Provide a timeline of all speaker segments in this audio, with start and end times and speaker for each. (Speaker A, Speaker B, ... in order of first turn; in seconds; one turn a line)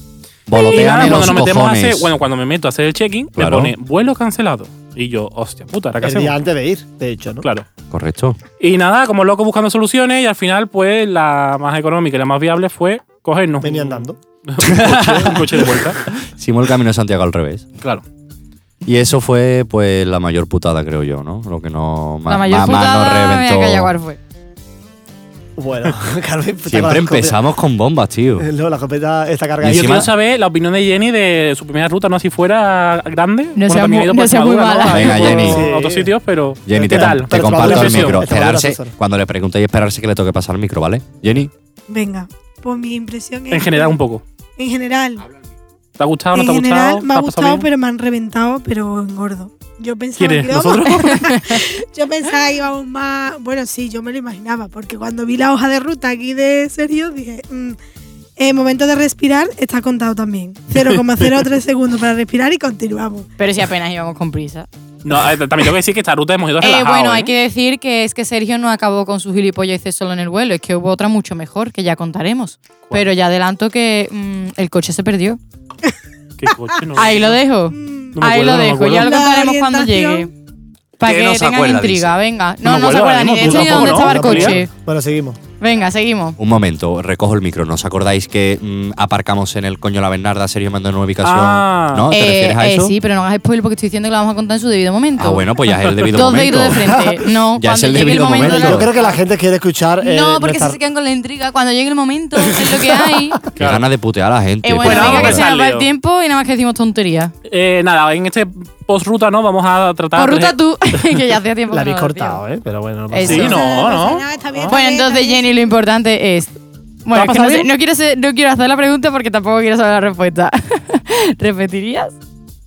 Speaker A: 0.5-2.1
Speaker B: 0.5-1.5
Speaker C: 0.7-6.4
Speaker A: 3.4-3.7
Speaker D: 6.0-7.5
Speaker C: 7.4-7.7
Speaker A: 7.9-8.4
Speaker C: 8.6-16.1
Speaker D: 13.6-14.2
Speaker A: 14.6-17.7
Speaker A: 18.8-23.9
Speaker B: 22.3-24.2
Speaker D: 25.6-27.4
Speaker A: 26.7-28.5
Speaker D: 28.4-30.1
Speaker A: 29.6-30.1
Speaker C: 29.6-38.2
Speaker B: 33.6-35.1
Speaker A: 34.9-35.7
Speaker D: 35.0-36.1
Speaker A: 36.7-41.5
Speaker D: 36.7-38.9
Speaker E: 41.9-44.0
Speaker C: 43.5-44.2
Speaker E: 44.6-45.3
Speaker C: 46.0-47.7
Speaker E: 46.3-57.8
Speaker C: 50.2-51.1
Speaker B: 51.2-51.6
Speaker E: 58.4-63.3
Speaker C: 60.7-61.0
Speaker B: 63.4-64.7
Speaker C: 65.0-67.3
Speaker B: 66.6-75.4
Speaker C: 76.4-77.4
Speaker B: 77.0-80.3
Speaker E: 77.7-78.2
Speaker C: 78.2-79.1
Speaker E: 79.0-80.3
Speaker B: 81.0-84.7
Speaker A: 81.0-82.2
Speaker C: 82.6-84.6
Speaker D: 83.4-85.4
Speaker B: 85.6-86.4
Speaker A: 86.4-93.0
Speaker C: 91.2-92.1
Speaker B: 92.1-95.5
Speaker A: 95.2-98.9
Speaker B: 96.1-99.2
Speaker D: 98.4-100.8
Speaker B: 100.0-103.4
Speaker D: 102.6-103.2
Speaker C: 103.6-103.9
Speaker A: 103.6-105.5
Speaker B: 104.6-107.3
Speaker C: 104.8-105.9
Speaker C: 107.5-111.2
Speaker B: 110.2-112.4
Speaker D: 111.7-113.7
Speaker B: 113.1-114.0
Speaker C: 113.2-114.7
Speaker E: 113.3-115.5
Speaker B: 114.7-122.1
Speaker C: 117.1-117.7